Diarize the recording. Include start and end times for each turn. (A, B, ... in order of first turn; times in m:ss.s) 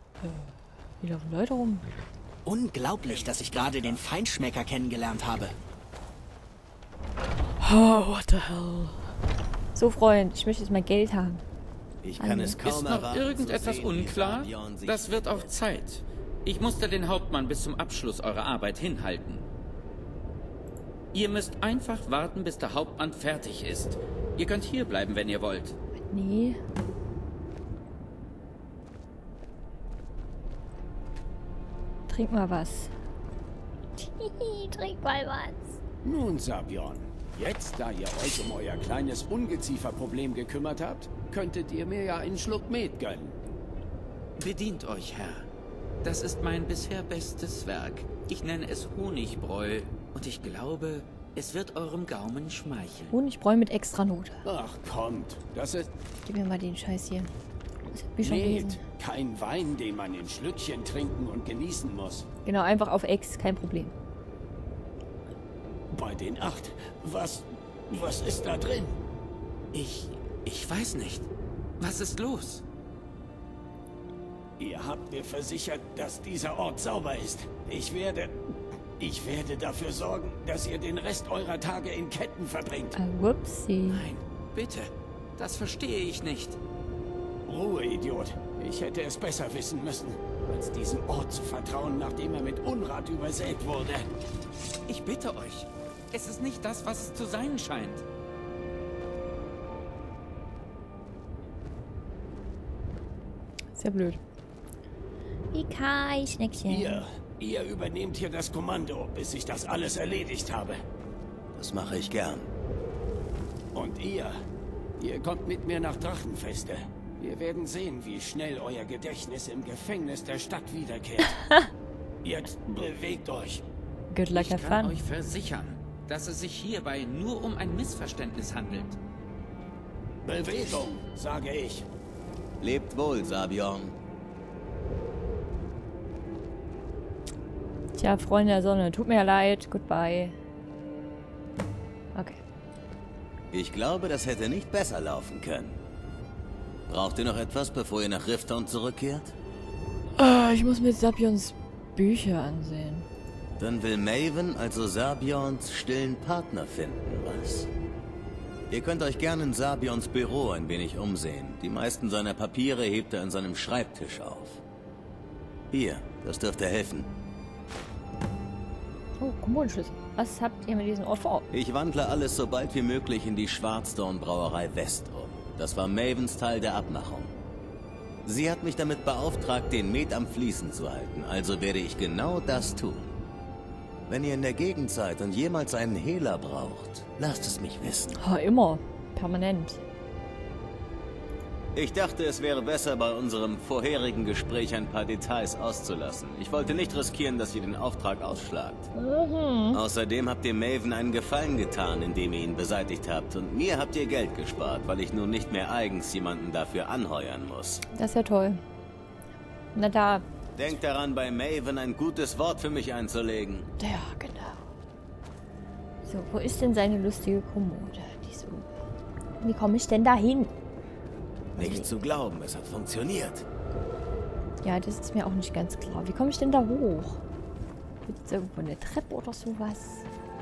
0:00.2-0:01.8 A
0:02.4-0:05.5 B
0:07.6-0:09.0 A
0:09.7-0:11.4 A
0:12.0-0:15.5 C
0:12.2-0:12.7 A
0:12.7-0:19.4 D
0:21.1-0:25.8 D
0:26.1-0:26.6 A
0:32.1-0:32.9 A
0:34.0-0:35.8 A
0:36.0-0:43.4 E
0:44.4-0:45.4 D
0:46.0-0:53.1 D
0:53.1-0:54.4 A
0:54.4-0:55.9 E
0:56.2-0:57.3 A
0:57.9-0:58.8 A
0:58.2-1:02.2 E
1:02.4-1:03.9 A
1:05.9-1:09.0 E
1:09.7-1:11.3 D
1:11.8-1:12.6 D
1:14.6-1:23.0 E
1:22.9-1:24.1 A
1:23.8-1:26.6 D
1:27.4-1:34.1 E
1:34.9-1:38.0 D
1:43.8-1:44.2 A
1:45.5-1:47.0 A
1:46.7-1:50.8 E
1:51.5-1:52.5 C
1:53.7-1:54.4 E
1:55.0-2:01.4 E
2:02.2-2:03.6 E
2:04.1-2:05.0 A
2:04.3-2:09.0 D
2:10.2-2:11.8 E
2:12.6-2:13.9 C
2:18.0-2:20.4 A
2:22.1-2:22.4 A
2:23.5-2:25.8 C
2:26.9-2:29.3 C
2:30.2-2:33.1 A
2:33.6-2:37.7 C
2:38.7-2:44.6 C
2:45.7-2:47.1 C
2:49.2-2:51.4 A
2:51.5-2:57.3 C
2:58.2-3:03.1 C
3:04.1-3:08.1 C
3:08.2-3:09.8 A
3:11.7-3:18.9 C
3:18.9-3:19.8 A
3:19.7-3:27.8 C
3:27.9-3:28.6 A
3:29.7-3:30.2 A
3:30.6-3:33.7 C
3:33.8-3:34.6 A
3:36.0-3:38.7 A
3:39.4-3:40.5 A
3:41.5-3:41.9 A
3:41.6-3:43.4 C
3:44.6-3:47.2 A
3:48.0-3:50.0 A